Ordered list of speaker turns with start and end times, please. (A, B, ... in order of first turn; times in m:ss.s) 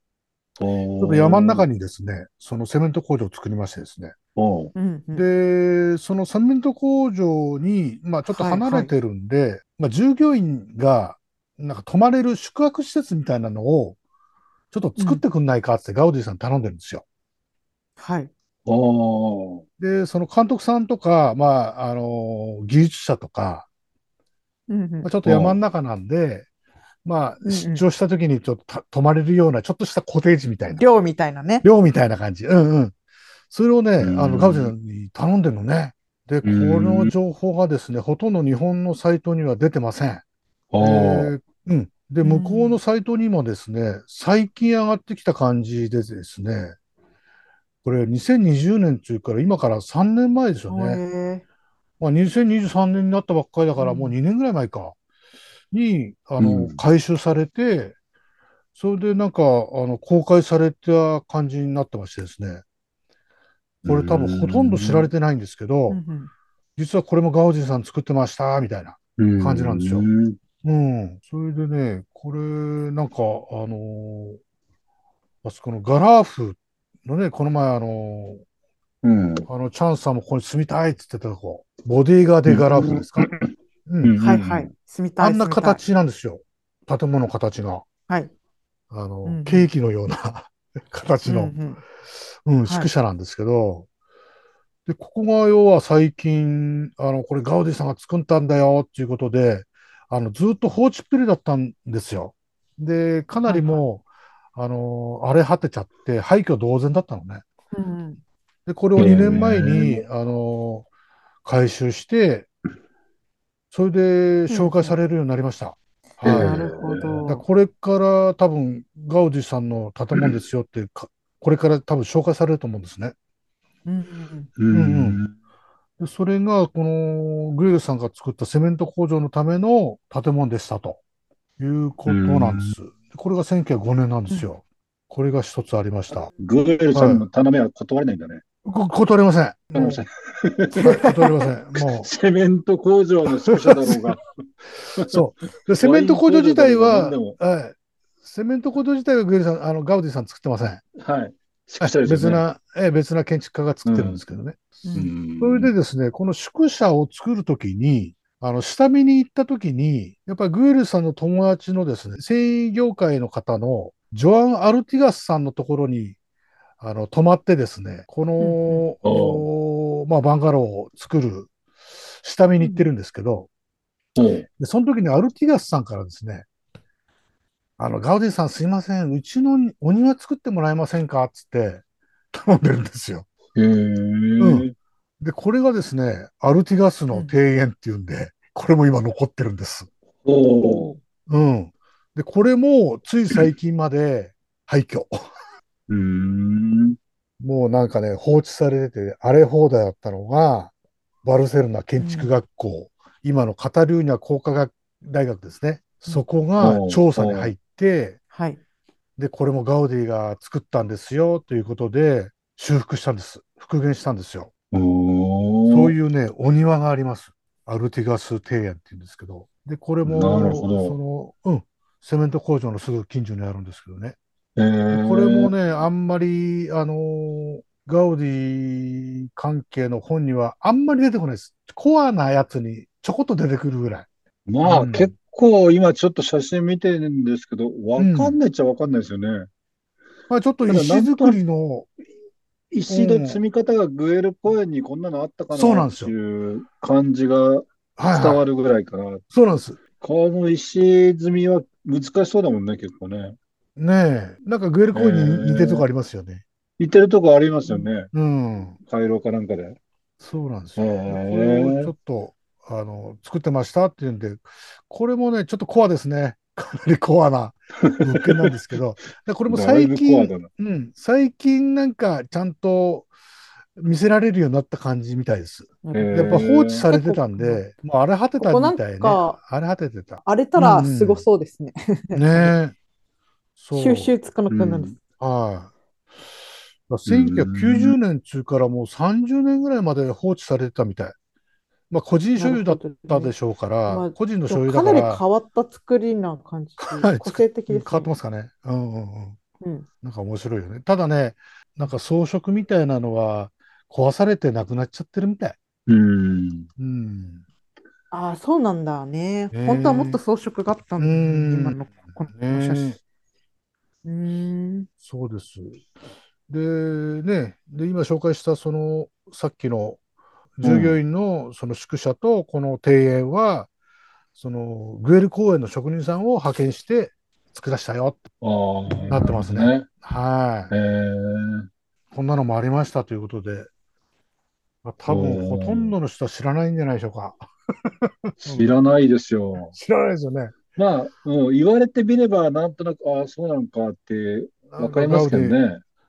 0:00.6-0:01.6 A
0:01.0-0:04.1 B
0:04.4-0:04.7 A
0:04.7-0:05.2 C
0:05.1-0:14.0 B
0:08.3-0:08.9 C
0:14.7-0:17.0 B
0:15.0-0:15.2 C
0:18.0-0:18.3 C
0:18.6-0:19.6 A
0:19.8-0:23.7 B
0:24.7-0:25.1 C
0:25.0-0:26.5 B
0:25.2-0:25.6 A
0:27.0-0:30.8 B
0:27.4-0:27.8 C
0:30.8-0:31.6 C
0:31.6-0:32.9 B
0:33.5-0:40.2 B
0:34.0-0:34.7 A
0:36.4-0:37.1 A
0:40.7-0:41.3 A
0:40.8-0:46.7 B
0:42.2-0:42.8 C
0:47.8-0:51.0 B
0:50.7-0:51.4 C
0:52.0-0:54.9 B
0:53.8-0:54.2 C
0:55.7-0:57.9 B
0:56.4-0:56.8 A
0:58.7-1:02.6 B
1:03.8-1:05.1 A
1:03.8-1:06.0 B
1:05.9-1:06.3 C
1:06.8-1:10.1 B
1:09.2-1:10.4 A
1:10.6-1:14.4 B
1:15.4-1:18.4 B
1:19.0-1:19.5 A
1:19.5-1:23.3 B
1:22.4-1:23.5 A
1:23.8-1:24.2 B
1:24.0-1:24.7 A
1:24.2-1:25.8 C
1:25.2-1:27.8 B
1:28.9-1:31.5 B
1:29.2-1:29.7 C
1:31.2-1:31.8 C
1:32.4-1:33.9 B
1:34.8-1:44.0 B
1:43.5-1:43.8 C
1:44.5-1:47.4 B
1:47.7-1:48.2 C
1:48.6-1:50.8 B
1:49.0-1:50.0 A
1:51.4-1:52.5 B
1:53.7-1:56.7 B
1:54.5-1:55.0 C
1:56.2-1:57.2 A
1:56.3-1:57.4 C
1:57.2-2:03.1 B
2:03.8-2:04.5 C
2:04.6-2:05.3 A
2:04.7-2:05.2 B
2:06.0-2:11.0 B
2:11.6-2:16.3 B
2:12.1-2:12.7 A
2:16.4-2:18.4 A
2:16.9-2:17.2 B
2:18.6-2:20.0 B
2:19.7-2:21.1 A
2:20.7-2:21.3 C
2:20.8-2:22.1 B
2:21.8-2:24.2 A
2:23.3-2:24.2 B
2:24.8-2:25.2 A
2:25.0-2:30.8 B
2:25.8-2:27.4 A
2:31.0-2:32.4 A
2:31.8-2:34.6 B
2:33.8-2:34.2 A
2:34.8-2:35.1 C
2:34.9-2:35.7 A
2:35.4-2:46.2 B
2:46.8-2:51.5 B
2:48.4-2:48.8 C
2:49.0-2:49.4 A
2:52.2-2:53.5 B
2:54.2-2:54.4 A
2:54.6-2:56.4 B
2:57.8-3:03.2 B
3:03.6-3:04.7 A
3:04.4-3:04.7 B
3:05.2-3:09.9 B
3:10.2-3:10.9 A
3:10.6-3:11.0 C
3:11.3-3:15.3 B
3:15.9-3:17.0 A
3:17.4-3:20.7 B
3:21.2-3:28.2 B
3:22.0-3:22.3 C
3:26.6-3:27.5 A
3:28.3-3:28.6 C
3:29.2-3:34.5 B
3:34.7-3:35.9 A
3:35.7-3:44.2 B
3:40.0-3:40.9 A
3:44.6-3:45.5 A
3:44.9-3:54.1 B
3:54.5-3:59.5 A
3:54.6-3:55.1 B
3:58.0-3:58.4 B
4:00.3-4:01.9 B
4:00.6-4:01.4 A
4:02.7-4:09.2 A
4:02.9-4:03.4 B
4:05.5-4:06.1 B
4:08.0-4:08.4 B
4:09.3-4:09.8 B
4:10.0-4:13.4 A
4:13.8-4:16.4 B
4:14.9-4:15.8 A
4:16.8-4:18.1 A
4:18.1-4:18.8 B
4:18.9-4:19.8 A
4:20.2-4:33.1 B
4:20.8-4:21.9 A
4:27.8-4:28.5 A
4:29.5-4:30.5 A
4:33.8-4:41.2 B
4:35.8-4:37.6 C
4:35.9-4:36.9 A
4:38.4-4:39.4 C
4:40.2-4:42.5 C
4:42.1-4:42.8 B
4:43.6-4:44.1 B
4:43.7-4:45.0 C
4:44.5-4:44.9 A
4:45.2-4:45.7 B
4:46.9-4:51.1 B
4:47.0-4:47.9 A
4:51.9-4:55.2 B
4:52.4-4:53.3 C
4:53.9-4:58.1 C
4:56.8-4:59.4 B
4:59.6-4:59.8 C
5:00.0-5:05.6 B
5:05.9-5:06.7 A
5:06.8-5:07.4 B
5:08.1-5:13.0 C
5:09.5-5:10.2 B
5:11.0-5:11.8 B
5:12.3-5:13.0 B
5:14.0-5:14.9 C
5:15.0-5:15.8 B
5:16.5-5:20.0 B
5:20.6-5:23.7 B
5:20.6-5:21.0 A
5:24.4-5:28.3 B
5:28.4-5:29.9 A
5:29.1-5:30.7 B
5:30.7-5:31.7 A
5:32.1-5:33.7 B
5:34.8-5:38.7 B
5:35.1-5:35.9 A
5:38.4-5:39.7 A
5:39.7-5:40.6 B
5:40.7-5:45.8 A
5:44.7-5:45.6 B